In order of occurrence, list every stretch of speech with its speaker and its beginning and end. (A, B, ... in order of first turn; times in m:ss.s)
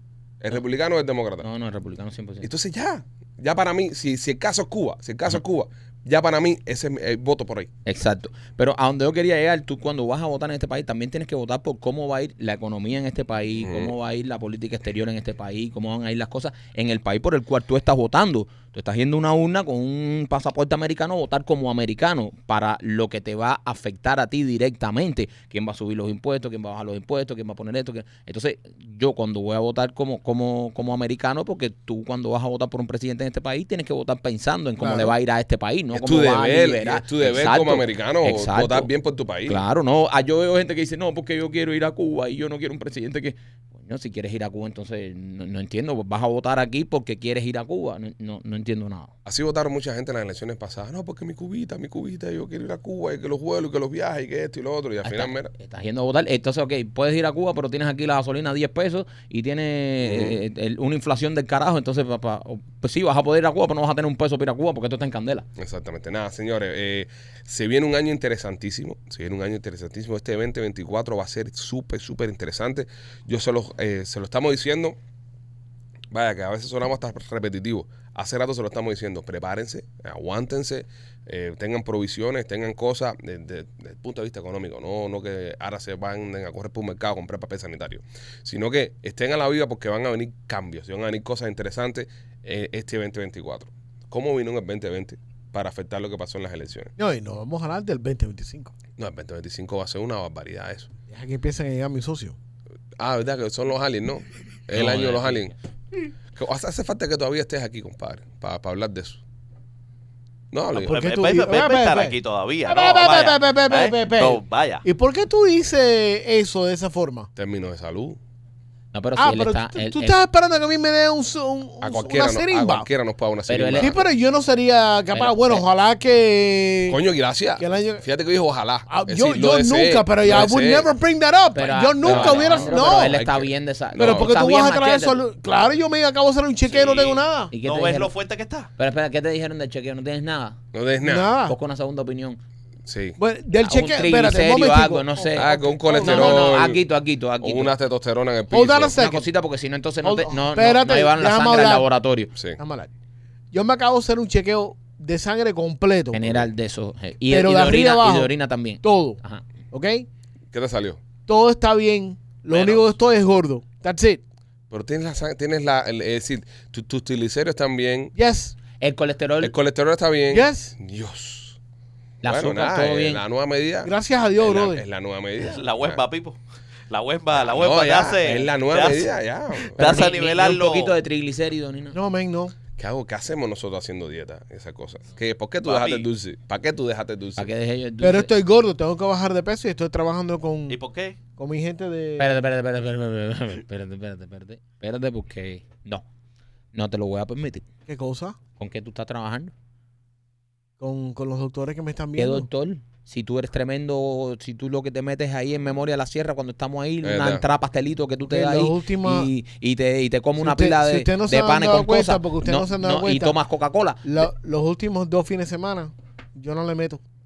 0:00.4-0:01.5 A
0:01.4-0:02.5 B
0:02.4-0:07.7 A
0:07.9-0:38.9 B
0:13.6-0:13.9 A
0:34.8-0:35.2 C
0:35.9-0:39.6 A
0:39.5-0:49.1 B
0:49.2-0:55.5 A
0:55.0-1:05.5 B
1:00.0-1:00.4 A
1:05.6-1:15.0 A
1:16.1-1:36.9 A
1:37.0-1:38.7 C
1:39.0-1:40.9 A
1:41.1-1:42.4 C
1:43.0-1:45.5 A
1:44.8-1:45.5 B
1:46.3-1:49.2 A
1:50.5-1:51.0 A
1:50.7-1:57.3 C
1:50.8-1:54.8 D
1:57.4-1:58.2 A
1:58.9-2:00.2 B
1:59.2-2:02.9 C
2:01.8-2:04.0 A
2:03.5-2:03.9 B
2:03.8-2:07.0 C
2:05.1-2:05.6 B
2:06.9-2:10.9 A
2:07.6-2:08.0 C
2:08.9-2:13.2 C
2:11.5-2:15.2 B
2:12.0-2:14.4 A
2:14.0-2:17.5 C
2:16.6-2:18.7 D
2:17.5-2:18.1 B
2:18.8-2:20.6 B
2:20.7-2:21.3 A
2:21.0-2:21.6 C
2:21.4-2:22.4 B
2:22.9-2:23.2 A
2:23.2-2:26.6 C
2:23.6-2:27.7 B
2:25.4-2:26.8 A
2:27.4-2:29.0 A
2:28.5-2:29.3 C
2:28.9-2:32.3 B
2:30.0-2:31.9 C
2:32.6-2:32.9 C
2:33.5-2:36.4 C
2:36.1-2:39.4 B
2:37.3-2:39.2 C
2:39.7-2:40.1 C
2:40.5-2:41.0 A
2:41.3-2:44.2 C
2:42.5-2:42.8 D
2:44.7-2:48.1 A
2:48.2-2:48.6 C
2:48.8-2:49.6 B
2:49.4-2:51.6 A
2:50.3-2:50.8 C
2:52.2-2:53.2 B
2:52.2-2:56.0 A
2:53.8-2:54.8 C
2:55.4-2:56.4 D
2:56.9-3:01.0 D
2:57.4-3:00.0 A
2:59.8-3:02.0 B
3:01.9-3:02.5 C
3:02.8-3:07.5 A
3:05.6-3:06.1 D
3:07.4-3:08.3 B
3:08.0-3:10.8 C
3:10.7-3:11.2 D
3:11.4-3:12.3 C
3:12.2-3:16.0 B
3:16.7-3:17.7 B
3:17.9-3:18.4 C
3:18.6-3:19.5 B
3:20.8-3:22.5 C
3:22.2-3:34.2 B
3:27.0-3:27.4 A
3:28.3-3:29.3 C
3:30.4-3:33.4 C
3:34.0-3:37.0 C